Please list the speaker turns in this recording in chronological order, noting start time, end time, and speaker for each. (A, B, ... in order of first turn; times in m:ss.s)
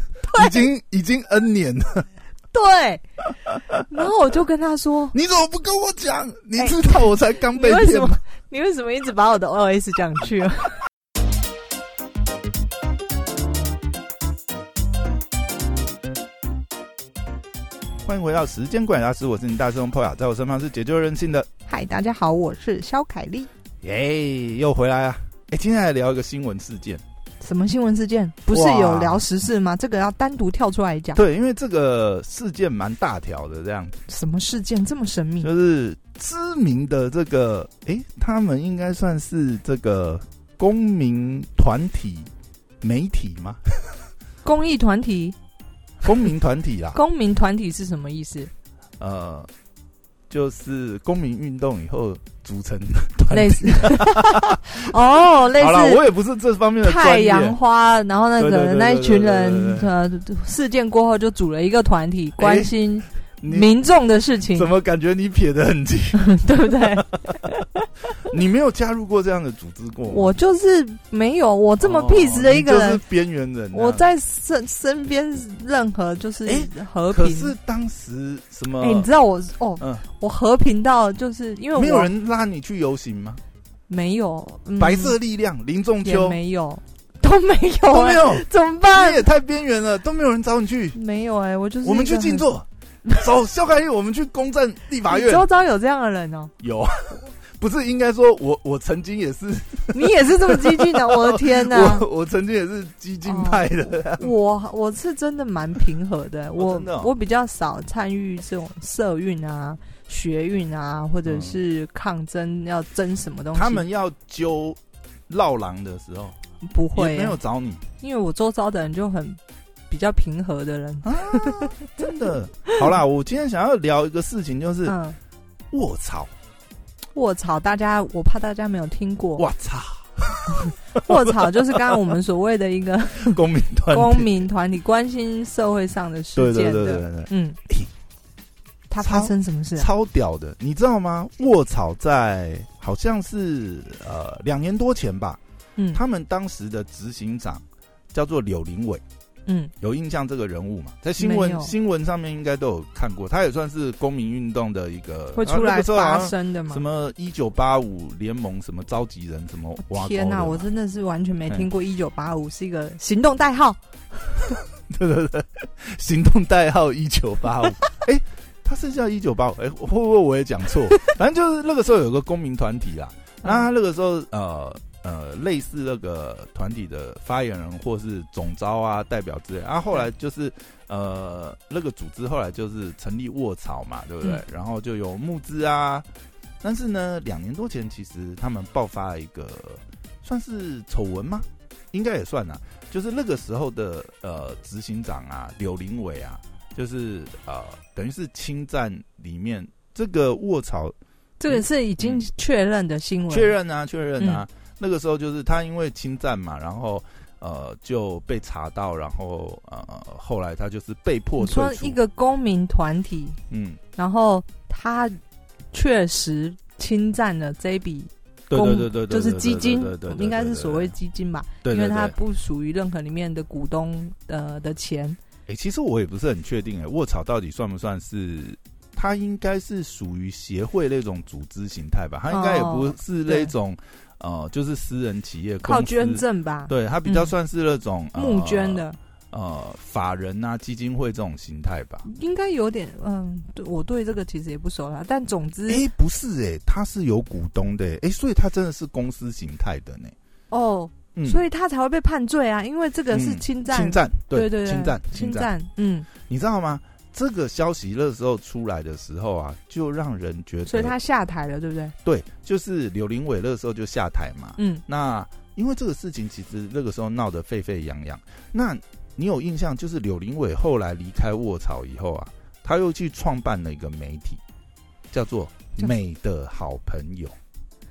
0:00.3-0:00.5 A
0:00.3-0:02.1 B
0:02.5-0:03.0 A
0:03.8-0:05.1 A
0:05.1-0:08.2 B
0:06.6-0:10.8 A
0:18.0-0:21.5 B
0:21.7-0:23.5 A
0:23.8-0:27.0 B
0:27.4-0:31.2 A
0:28.5-0:29.2 B
0:31.1-0:34.0 B
0:34.1-0:35.5 A
0:35.4-0:44.0 B
0:44.4-0:45.4 A
0:46.0-0:47.0 B
0:46.9-0:48.5 A
0:49.0-0:49.5 B
0:50.3-0:54.7 B
0:53.3-0:56.0 A
0:55.6-0:57.6 B
0:56.8-1:04.7 A
0:58.4-0:59.9 B
1:02.4-1:02.8 B
1:03.4-1:03.7 B
1:04.5-1:07.5 B
1:06.2-1:08.3 A
1:08.2-1:10.3 B
1:10.1-1:13.0 A
1:11.8-1:14.1 B
1:13.7-1:17.5 A
1:16.4-1:19.1 B
1:18.8-1:22.1 A
1:19.8-1:20.0 B
1:21.7-1:23.4 B
1:23.9-1:25.2 A
1:24.8-1:26.4 B
1:26.0-1:29.2 A
1:27.9-1:31.0 B
1:30.9-1:32.4 A
1:31.8-1:35.4 B
1:35.1-1:36.5 A
1:36.6-1:44.3 B
1:39.9-1:42.1 A
1:43.2-1:43.6 A
1:44.2-1:53.8 A
1:46.6-1:47.1 B
1:51.2-1:51.6 B
1:53.5-1:56.4 B
1:56.6-1:57.4 A
1:56.9-1:57.8 B
1:58.0-2:02.1 A
2:01.0-2:04.9 B
2:04.8-2:05.2 A
2:05.7-2:06.3 B
2:07.1-2:09.4 A
2:09.4-2:12.1 B
2:11.0-2:17.6 A
2:13.2-2:14.3 B
2:16.4-2:17.9 B
2:18.9-2:19.9 A
2:19.0-2:25.4 B
2:25.9-2:29.0 B
2:29.5-2:29.7 A
2:29.8-2:40.6 B
2:31.2-2:31.7 A
2:35.3-2:36.8 A
2:39.8-2:44.6 A
2:44.8-3:06.0 B
3:06.6-3:20.9 B
3:21.4-3:23.5 A
3:21.5-3:22.2 B
3:23.3-3:32.0 B
3:31.4-3:33.4 A
3:33.5-3:33.8 B
3:34.0-3:35.2 A
3:35.7-3:45.2 A
3:38.5-3:40.9 B
3:41.6-3:42.2 B
3:45.5-4:02.0 B
3:52.3-3:53.5 A
3:55.6-3:57.3 A
3:58.2-3:59.0 A
4:02.0-4:05.8 A
4:05.7-4:10.1 B
4:10.5-4:16.1 A
4:11.1-4:11.4 B
4:13.1-4:15.5 B
4:16.1-4:20.9 B
4:20.6-4:21.9 A
4:22.0-4:34.4 B
4:24.6-4:24.8 A
4:35.1-4:37.4 B